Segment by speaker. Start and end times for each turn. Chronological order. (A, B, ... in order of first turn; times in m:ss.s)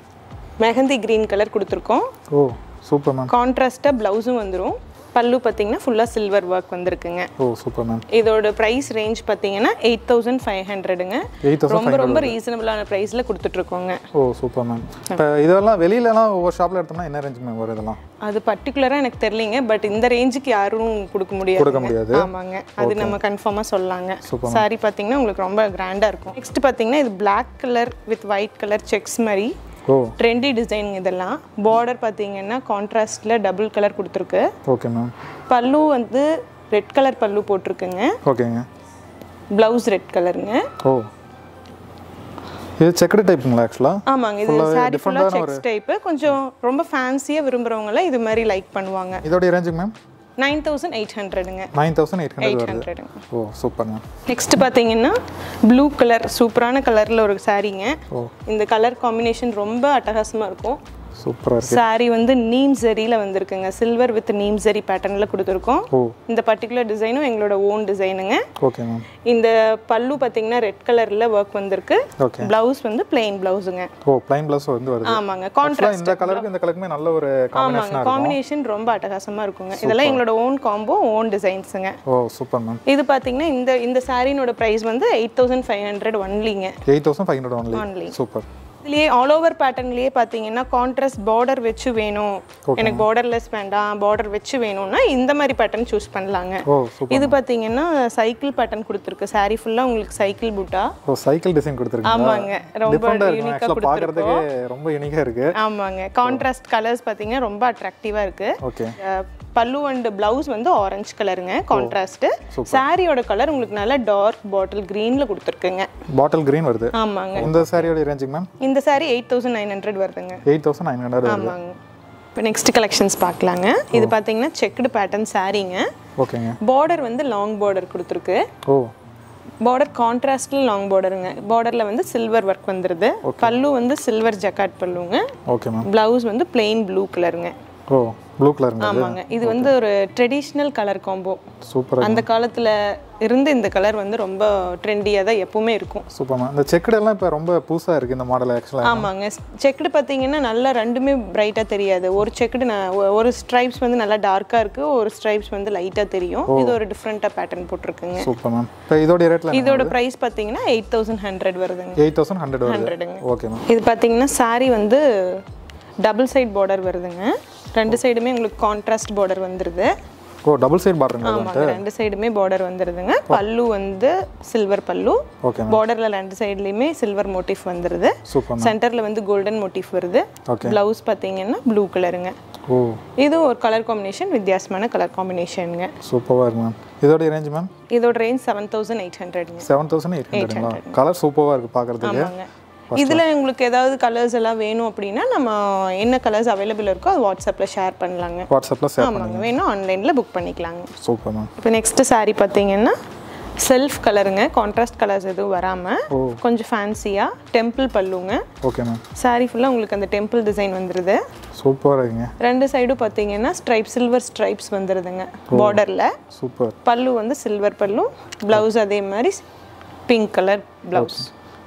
0:00.6-0:02.1 A
0:02.3-0:03.3 B
0:03.3-0:07.3 A
0:07.4-0:08.0 B
0:08.1-0:14.0 A
0:11.4-0:12.4 B
0:14.1-0:18.0 B
0:18.2-0:29.5 A
0:21.5-0:23.2 B
0:24.2-0:24.7 B
0:29.9-0:30.2 B
0:30.2-0:34.5 A
0:34.7-0:35.1 B
0:35.5-0:38.2 A
0:38.2-0:38.7 B
0:39.5-0:40.7 A
0:40.8-0:41.1 B
0:42.8-0:45.6 B
0:44.1-0:49.2 A
0:49.2-0:49.9 B
0:50.4-0:51.7 A
0:51.7-0:54.0 B
0:52.4-0:53.2 A
0:54.3-1:00.8 A
1:01.2-1:01.8 B
1:01.6-1:08.4 A
1:08.6-1:09.1 B
1:09.2-1:13.9 A
1:12.2-1:12.5 B
1:14.0-1:18.4 B
1:15.0-1:16.4 A
1:17.5-1:22.0 A
1:19.7-1:20.2 B
1:22.1-1:22.8 B
1:22.9-1:26.8 A
1:26.8-1:28.5 B
1:27.7-1:28.1 A
1:28.8-1:40.9 A
1:32.7-1:33.1 B
1:36.7-1:37.4 B
1:41.1-1:45.5 B
1:42.0-1:44.4 A
1:45.5-1:55.9 A
1:48.6-1:49.0 B
1:51.7-1:52.0 B
1:52.5-1:52.8 B
1:56.1-1:58.5 B
1:56.9-1:57.6 A
1:58.6-2:00.4 A
2:00.5-2:01.6 B
2:01.2-2:01.8 A
2:02.4-2:05.9 A
2:06.2-2:06.6 B
2:06.6-2:08.5 A
2:08.7-2:08.9 B
2:09.6-2:15.3 A
2:13.2-2:13.6 B
2:15.5-2:15.9 B
2:15.8-2:17.5 A
2:17.9-2:19.8 B
2:18.8-2:21.4 A
2:21.6-2:22.3 B
2:22.0-2:26.1 A
2:26.1-2:29.1 B
2:28.8-2:38.3 A
2:36.5-2:36.8 B
2:38.2-2:40.0 B
2:39.5-2:42.0 A
2:42.0-2:43.6 B
2:42.6-2:45.4 A
2:46.0-2:49.9 A
2:50.4-2:51.8 B
2:51.2-3:02.3 A
2:55.4-2:55.8 B
2:58.3-2:58.8 B
3:00.5-3:00.8 B
3:02.7-3:03.0 B
3:03.2-3:05.9 A
3:06.0-3:07.7 B
3:07.9-3:09.7 A
3:09.6-3:12.3 B
3:10.3-3:11.0 A
3:12.0-3:20.9 A
3:12.9-3:13.2 B
3:18.5-3:19.5 B
3:21.0-3:21.5 B
3:21.6-3:23.0 A
3:23.6-3:28.4 A
3:26.1-3:26.4 B
3:28.6-3:29.0 B
3:29.2-3:31.2 A
3:31.6-3:32.3 B
3:32.4-3:36.2 A
3:35.5-3:35.8 B
3:36.3-3:36.8 B
3:36.8-3:39.4 A
3:40.1-3:41.3 A
3:40.9-3:41.3 B